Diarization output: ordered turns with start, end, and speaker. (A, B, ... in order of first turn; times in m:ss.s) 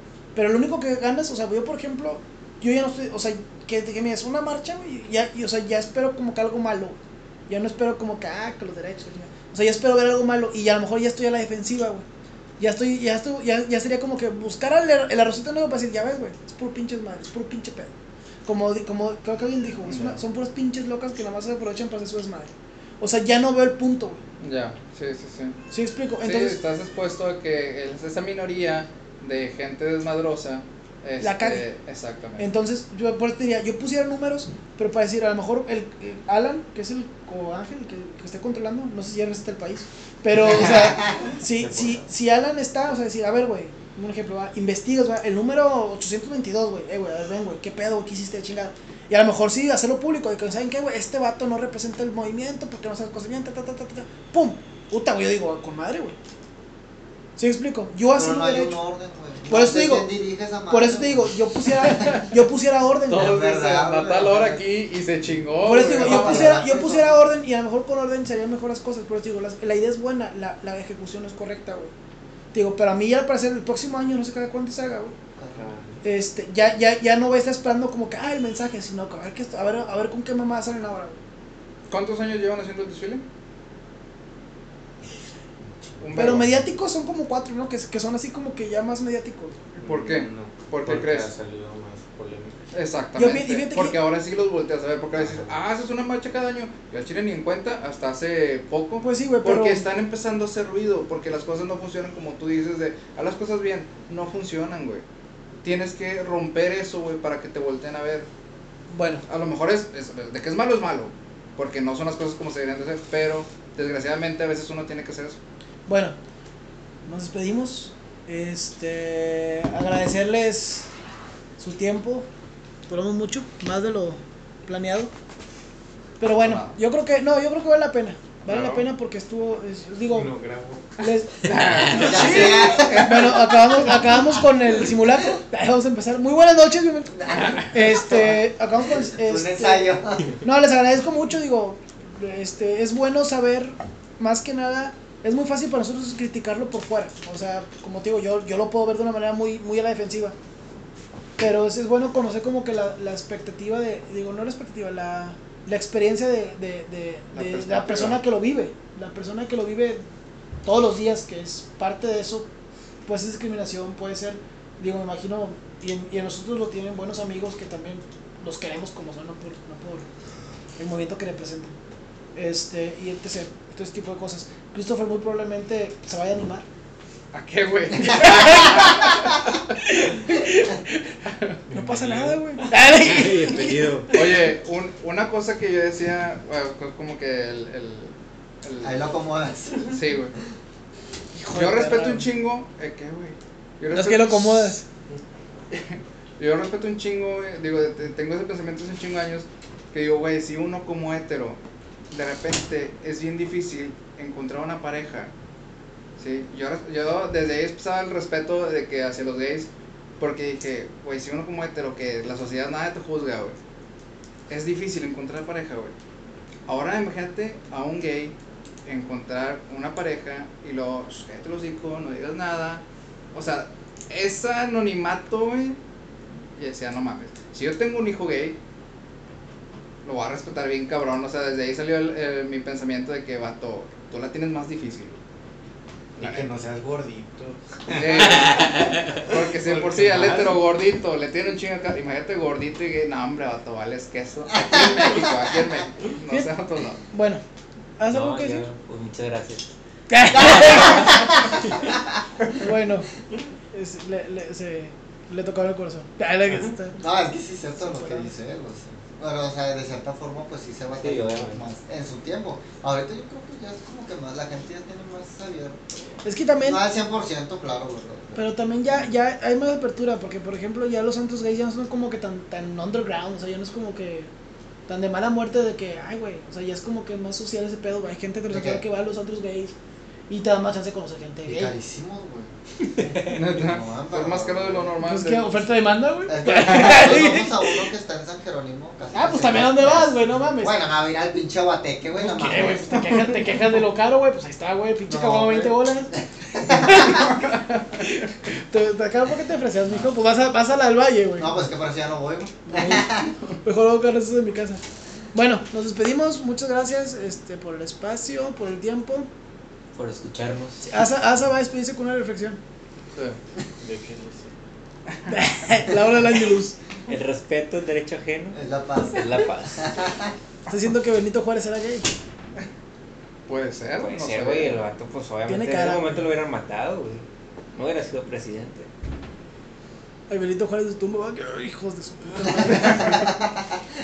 0:00.4-0:12.0 A
0:12.6-0:17.9 A
0:18.4-0:24.2 A
0:19.8-0:20.2 B
0:24.4-0:25.6 B
0:25.7-0:26.6 A
0:26.2-0:32.5 B
0:31.2-0:31.6 A
0:32.4-0:56.2 A
0:40.5-0:41.2 C
0:41.2-0:42.0 D
0:57.4-0:58.8 A
0:58.1-1:01.3 C
0:59.5-1:00.1 A
1:00.7-1:03.5 A
1:02.0-1:02.3 B
1:03.1-1:06.6 B
1:03.1-1:04.6 C
1:05.6-1:11.9 A
1:05.7-1:07.2 C
1:12.5-1:15.1 A
1:15.4-1:15.7 C
1:15.6-1:16.0 D
1:16.0-1:21.2 A
1:21.9-1:23.2 B
1:26.0-1:26.6 B
1:26.1-1:29.6 A
1:29.8-1:32.6 D
1:29.8-1:31.3 B
1:32.7-1:45.0 B
1:33.2-1:33.9 A
1:35.2-1:35.5 D
1:39.0-1:39.8 A
1:45.6-1:48.3 B
1:48.9-1:49.2 A
1:49.3-1:55.4 B
1:55.9-1:56.2 A
1:57.0-2:00.9 A
2:01.6-2:02.3 A
2:02.9-2:05.1 A
2:06.2-2:10.3 A
2:06.4-2:06.8 B
2:08.5-2:08.8 B
2:10.0-2:11.1 D
2:11.0-2:19.9 A
2:11.5-2:13.4 B
2:11.8-2:13.4 C
2:18.1-2:20.4 C
2:20.4-2:30.4 A
2:31.4-2:40.0 A
2:37.4-2:38.2 B
2:40.6-2:42.5 A
2:43.0-2:50.1 A
2:50.8-2:51.7 A
2:52.4-2:56.6 A
2:57.3-3:00.0 B
2:58.1-2:59.0 A
2:59.8-3:01.2 A
3:01.3-3:02.4 B
3:01.7-3:04.4 A
3:02.7-3:04.1 E
3:04.1-3:09.1 B
3:08.8-3:10.3 C
3:09.8-3:10.3 B
3:11.3-3:12.3 A
3:11.5-3:14.8 B
3:13.9-3:14.8 A
3:15.7-3:21.6 B
3:22.1-3:25.3 B
3:26.2-3:33.6 B
3:34.5-3:35.9 B
3:36.7-3:38.3 B
3:38.8-3:42.8 B
3:43.3-3:45.8 B
3:46.6-3:48.6 B
3:50.0-3:55.2 B
3:56.2-4:00.6 D
3:56.2-3:56.5 B
3:57.9-4:07.0 B
3:58.7-3:59.2 E
4:07.1-4:07.4 A
4:08.0-4:08.6 A
4:08.1-4:09.7 E
4:10.1-4:11.7 A
4:10.4-4:11.5 C
4:10.7-4:11.1 E
4:12.6-4:13.1 A
4:13.7-4:17.0 A
4:17.0-4:29.0 C
4:17.9-4:18.3 A
4:21.0-4:21.6 E
4:26.2-4:26.8 A
4:28.4-4:34.3 A
4:34.9-4:39.7 A
4:38.5-4:38.8 C
4:40.3-4:41.7 A
4:41.4-4:42.5 C
4:43.0-4:43.4 E
4:43.3-4:45.7 B
4:43.5-4:44.9 C
4:45.0-4:47.9 A
4:46.3-4:53.2 C
4:49.1-4:50.8 A
4:52.2-5:01.6 A
4:55.1-4:57.3 C
4:57.3-4:58.1 B
5:01.4-5:03.3 C
5:02.6-5:09.3 A
5:09.9-5:10.9 E
5:10.8-5:12.6 A
5:13.1-5:13.4 B
5:13.8-5:14.5 D
5:15.3-5:16.8 A
5:17.1-5:20.0 E
5:18.5-5:20.3 C
5:20.7-5:22.1 A
5:23.5-5:24.8 B
5:24.0-5:28.9 E
5:25.5-5:26.3 A
5:30.3-5:33.3 A
5:32.7-5:33.2 C